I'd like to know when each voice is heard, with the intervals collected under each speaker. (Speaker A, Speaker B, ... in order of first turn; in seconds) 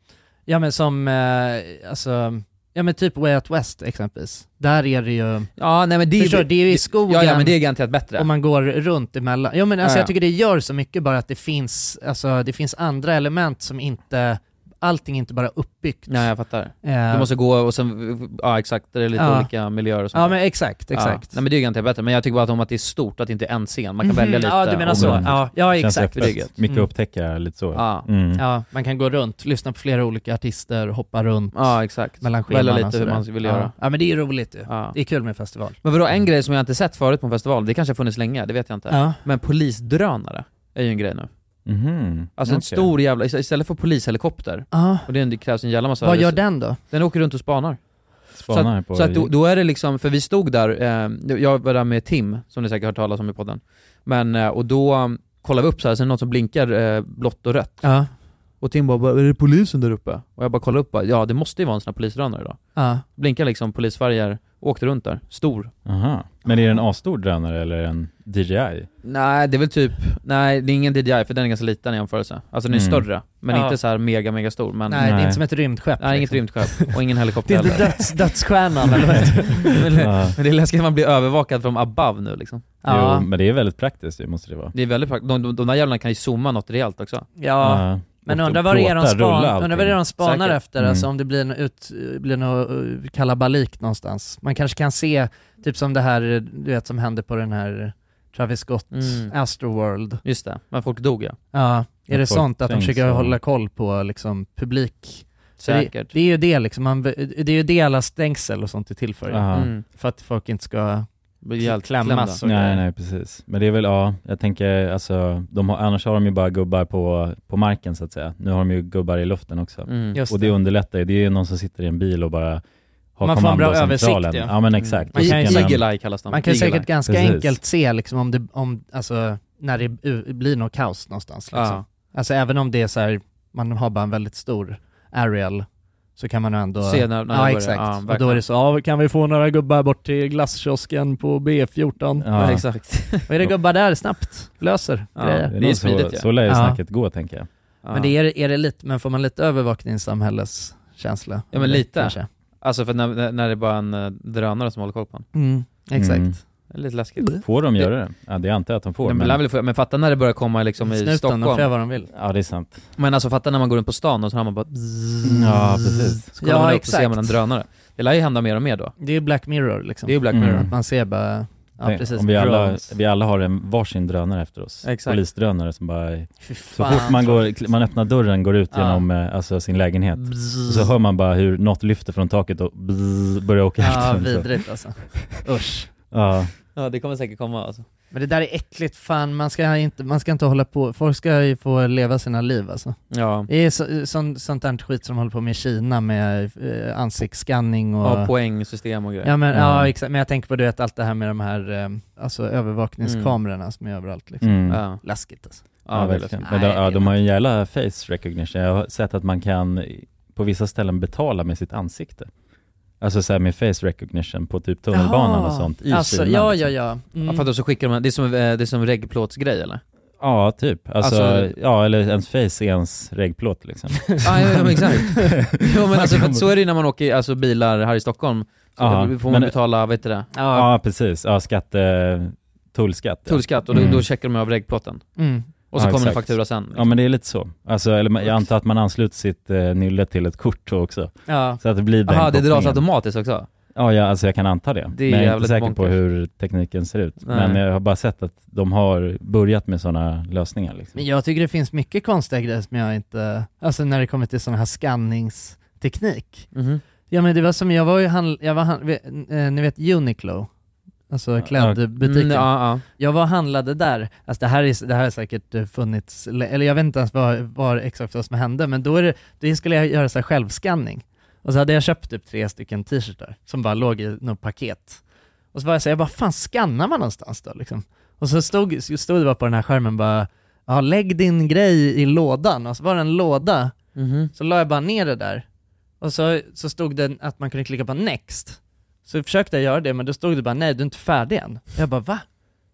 Speaker A: 0.5-5.5, 6.2-7.6, 8.1-17.3, 19.2-19.5, 20.1-21.4, 24.0-26.9, 28.4-35.8, 38.9-39.2, 44.7-45.1, 46.0-46.8, 57.8-58.1, 62.8-63.0, 73.5-73.8, 74.9-76.9, 77.4-79.8, 82.8-83.3, 87.4-100.2, 101.5-111.1, 111.6-112.5, 120.1-120.5, 123.2-124.5, 125.1-135.6, 136.2-142.5, 143.3-145.5, 146.5-146.8, 147.9-152.3, 155.3-156.4, 160.8-162.1, 166.4-167.3, 169.0-172.3, 176.4-177.4, 178.7-179.0, 183.8-185.9, 188.1-198.3, 199.2-205.6, 206.4-207.0, 214.9-217.4, 230.3-230.7, 235.2-235.5, 241.3-241.6, 250.9-256.5, 257.1-260.5, 261.1-275.0, 275.5-283.7, 284.3-285.4, 286.0-292.2
Speaker B: 5.6-8.3, 9.8-10.1, 16.1-26.5, 27.7-28.1, 31.5-33.9, 34.7-35.0, 35.8-41.3, 42.4-58.0, 58.6-65.7, 69.0-75.2, 76.0-78.2, 79.6-82.7, 84.7-87.3, 90.2-90.6, 98.9-99.3, 100.2-101.4, 105.6-106.1, 109.5-109.8, 111.4-112.8, 119.9-120.2, 124.8-126.9, 131.5-131.8, 136.8-138.4, 142.3-143.3, 145.2-146.2, 147.8-148.1, 151.5-155.3, 156.7-157.9, 159.0-161.7, 163.0-168.9, 170.1-170.7, 172.2-172.8, 174.8-175.2, 180.3-180.6, 186.7-187.8, 193.1-193.5, 198.0-199.3, 203.0-203.3, 204.7-205.0, 205.8-206.4, 217.2-219.8, 221.0-221.5, 224.2-230.3, 233.3-235.2, 235.7-236.9, 242.1-243.5, 244.9-246.0, 247.2-247.6, 256.5-256.8, 262.0-262.8, 283.9-284.3
Speaker C: 24.9-28.4, 41.6-42.9, 48.4-49.3, 65.8-68.9, 72.7-73.1, 75.0-75.4, 80.0-80.3, 82.8-84.7, 87.6-90.0, 90.8-91.1, 102.1-103.4, 109.3-109.7, 112.4-122.6, 123.2-125.8, 127.0-127.6, 142.2-142.7, 145.5-147.5, 155.9-156.4, 157.4-159.4, 162.1-162.8, 165.2-166.2, 170.3-170.7, 171.8-184.5, 186.1-186.5, 199.5-199.9, 204.4-204.8, 205.9-212.3, 213.0-216.7, 220.2-226.4, 228.8-229.5, 230.5-234.1, 235.8-242.8, 243.7-251.0, 261.4-261.8